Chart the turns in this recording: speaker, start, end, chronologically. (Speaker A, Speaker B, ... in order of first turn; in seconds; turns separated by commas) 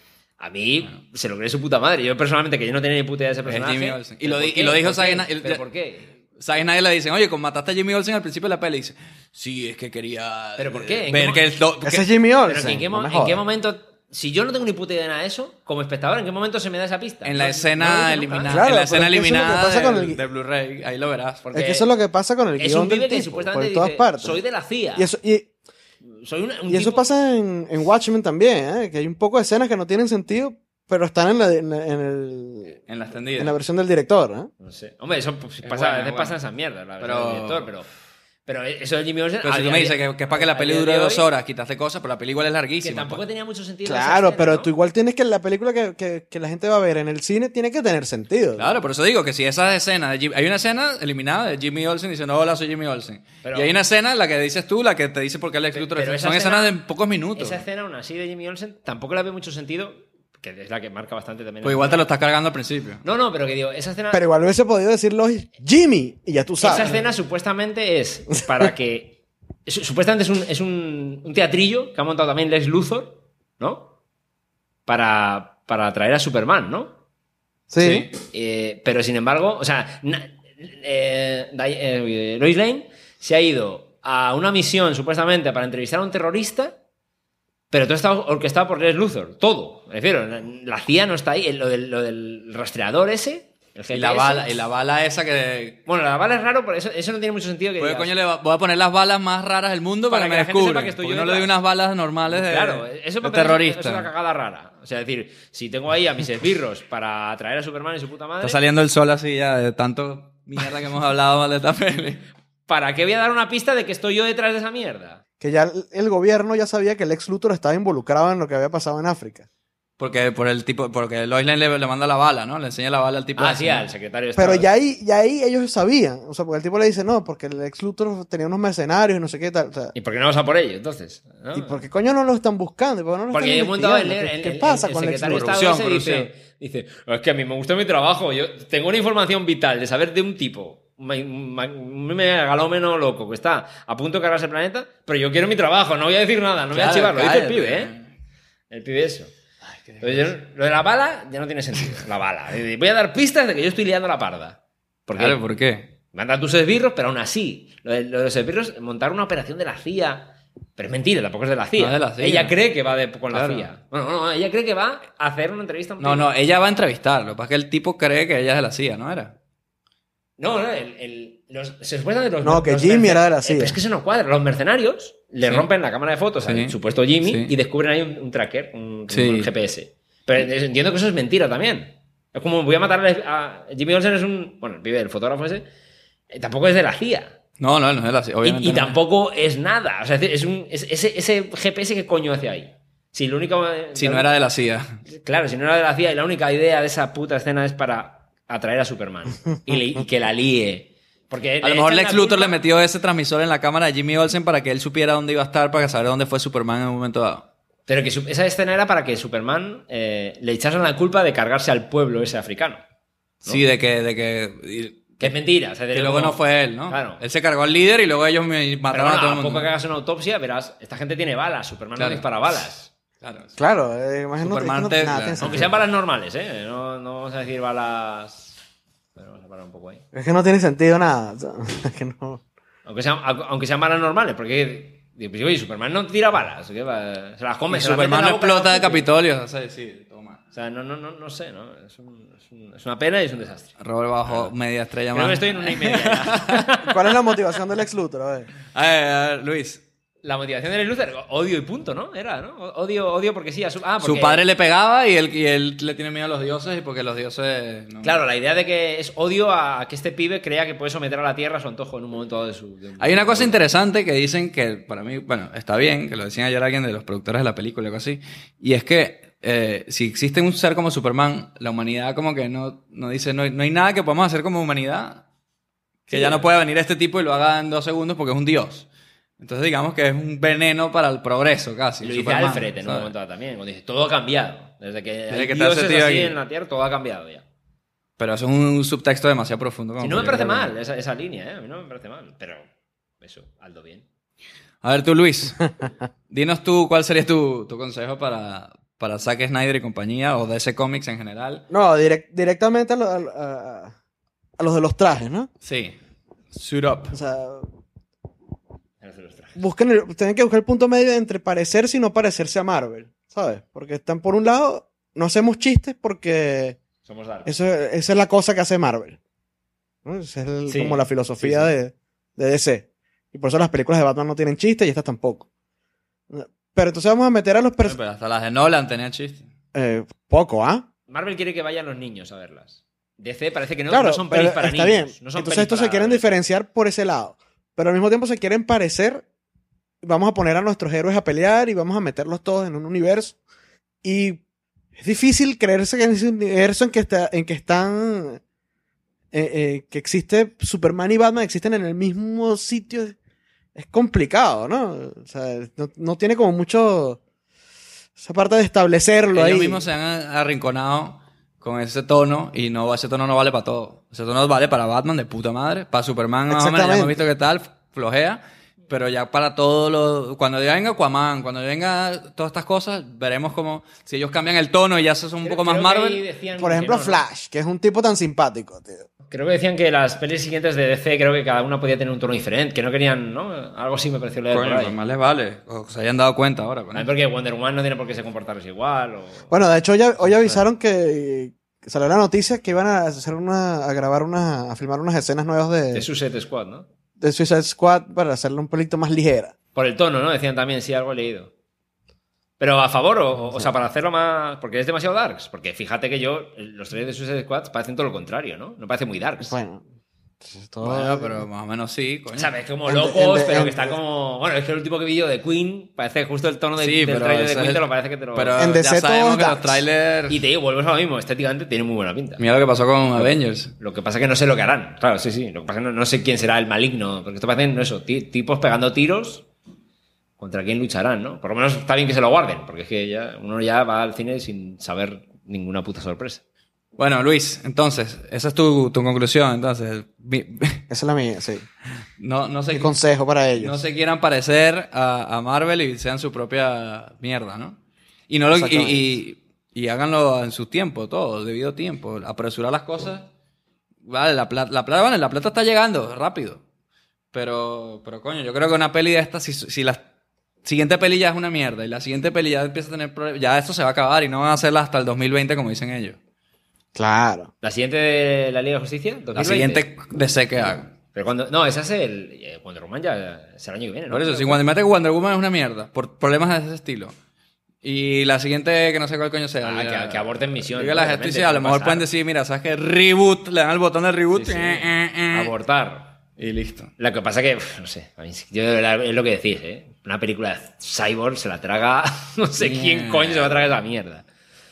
Speaker A: 0.4-6.1, Speaker B: 3.5-5.6, Speaker B: 6.4-12.1, Speaker A: 10.6-11.4, Speaker C: 11.8-13.4, Speaker A: 12.5-18.6, Speaker B: 17.2-21.4, Speaker C: 18.5-20.2, Speaker A: 21.4-21.9, Speaker C: 21.5-24.4, Speaker A: 22.6-25.1, Speaker C: 25.0-25.5, Speaker A: 26.2-27.1, Speaker C: 26.7-32.8, Speaker B: 32.9-33.5, Speaker C: 33.4-34.5, Speaker A: 34.6-37.9, Speaker B: 35.6-36.4, Speaker B: 37.0-37.7, Speaker A: 38.5-41.3, Speaker B: 39.4-43.2, Speaker A: 42.8-44.7, Speaker C: 43.9-48.7, Speaker B: 48.6-57.6, Speaker A: 53.4-53.7, Speaker A: 55.7-56.7, Speaker A: 57.4-62.0, Speaker B: 61.6-63.0, Speaker A: 63.0-64.2, Speaker C: 64.1-67.0, Speaker A: 66.6-73.9, Speaker A: 74.9-77.0, Speaker C: 77.7-78.1, Speaker B: 77.8-78.1, Speaker A: 78.3-86.8, Speaker A: 87.7-94.5, Speaker B: 93.9-95.8, Speaker A: 95.9-98.1, Speaker B: 97.8-104.1, Speaker A: 100.1-101.5, Speaker A: 102.3-108.6, Speaker B: 108.4-112.2, Speaker A: 112.7-115.2, Speaker C: 115.4-119.5, Speaker B: 120.0-123.9, Speaker A: 123.4-124.7, Speaker C: 124.4-129.9, Speaker A: 129.9-131.8, Speaker C: 131.6-135.6, Speaker A: 133.3-147.9, Speaker B: 135.3-136.3, Speaker B: 146.7-148.1, Speaker A: 148.7-149.3, Speaker B: 149.9-150.3, Speaker A: 150.0-155.4, Speaker B: 155.2-155.9, Speaker A: 156.1-166.3, Speaker B: 161.8-162.5, Speaker B: 163.3-163.7, Speaker B: 166.0-169.3, Speaker A: 170.4-185.7, Speaker C: 172.4-173.8, Speaker B: 176.4-177.5, Speaker B: 179.1-179.5, Speaker A: 186.3-187.4, Speaker B: 187.6-189.0, Speaker A: 188.4-194.3, Speaker B: 194.0-194.9, Speaker A: 195.1-202.6, Speaker B: 201.6-207.4, Speaker A: 207.9-212.8, Speaker B: 213.4-215.3, Speaker A: 215.2-217.2, Speaker B: 215.9-219.7, Speaker A: 218.9-222.9, Speaker B: 222.0-222.2, Speaker B: 223.2-223.5, Speaker C: 223.6-225.8, Speaker B: 224.4-225.7, Speaker A: 225.4-228.6, Speaker A: 229.2-230.0, Speaker C: 230.1-232.4, Speaker A: 232.9-239.1, Speaker B: 237.7-240.4, Speaker A: 240.5-243.8, Speaker B: 243.8-246.7, Speaker A: 244.3-244.5, Speaker A: 245.1-246.9, Speaker C: 246.8-248.5, Speaker B: 248.7-249.8, Speaker A: 250.2-254.4, Speaker B: 254.0-258.2, Speaker A: 258.0-263.6, Speaker B: 263.0-275.2, Speaker B: 276.1-278.9, Speaker A: 276.1-276.4, Speaker B: 279.4-283.1, Speaker A: 282.0-287.4, Speaker B: 285.3-286.4, Speaker B: 288.2-290.7, Speaker A: 290.0-292.6, Speaker A: 293.2-294.1, Speaker B: 294.8-295.7, Speaker B: 296.3-301.6, Speaker C: 301.7-303.9, Speaker C: 304.6-305.5, Speaker B: 305.6-306.0, Speaker B: 306.5-307.1, Speaker C: 307.1-307.7, Speaker A: 309.0-309.6, Speaker C: 309.6-316.8, Speaker A: 317.1-317.5, Speaker C: 317.4-319.2, Speaker C: 320.1-325.5, Speaker A: 320.7-321.7, Speaker C: 326.3-328.0, Speaker B: 327.8-329.5, Speaker C: 329.7-330.9, Speaker A: 331.1-336.4, Speaker C: 333.9-339.2, Speaker C: 340.0-343.4, Speaker C: 344.0-344.4, Speaker C: 345.0-348.4, Speaker C: 349.3-353.2, Speaker C: 353.8-357.2, Speaker C: 358.2-359.8, Speaker B: 359.3-376.2, Speaker C: 366.5-367.1, Speaker A: 375.4-377.2, Speaker C: 376.6-379.1, Speaker A: 379.3-384.9, Speaker B: 384.5-387.1, Speaker A: 386.9-389.5, Speaker C: 389.5-396.1, Speaker A: 395.9-396.9, Speaker C: 397.2-399.5, Speaker A: 399.8-401.5, Speaker A: 402.6-409.6, Speaker C: 409.4-409.8, Speaker C: 410.4-411.4, Speaker B: 410.8-412.5, Speaker A: 412.4-418.8, Speaker C: 412.9-414.0, Speaker B: 416.8-420.4, Speaker C: 418.6-419.8, Speaker A: 420.3-422.4, Speaker B: 422.4-423.7, Speaker A: 423.1-429.5, Speaker A: 430.4-436.4, Speaker B: 437.0-440.8, Speaker C: 440.9-441.7, Speaker B: 442.2-442.9, Speaker C: 442.7-443.8, Speaker B: 443.6-447.8, Speaker B: 448.3-453.3, Speaker C: 448.5-449.1, Speaker B: 454.1-456.6, Speaker B: 457.3-460.0, Speaker B: 460.6-466.2, Speaker C: 466.9-467.5, Speaker A: 467.6-469.8, Speaker B: 469.4-470.9, Speaker A: 471.1-474.6, Speaker B: 474.1-477.1, Speaker B: 477.8-485.5, Speaker A: 479.6-482.1, Speaker A: 484.3-486.1, Speaker B: 486.4-486.9, Speaker A: 487.0-494.2, Speaker B: 492.6-493.7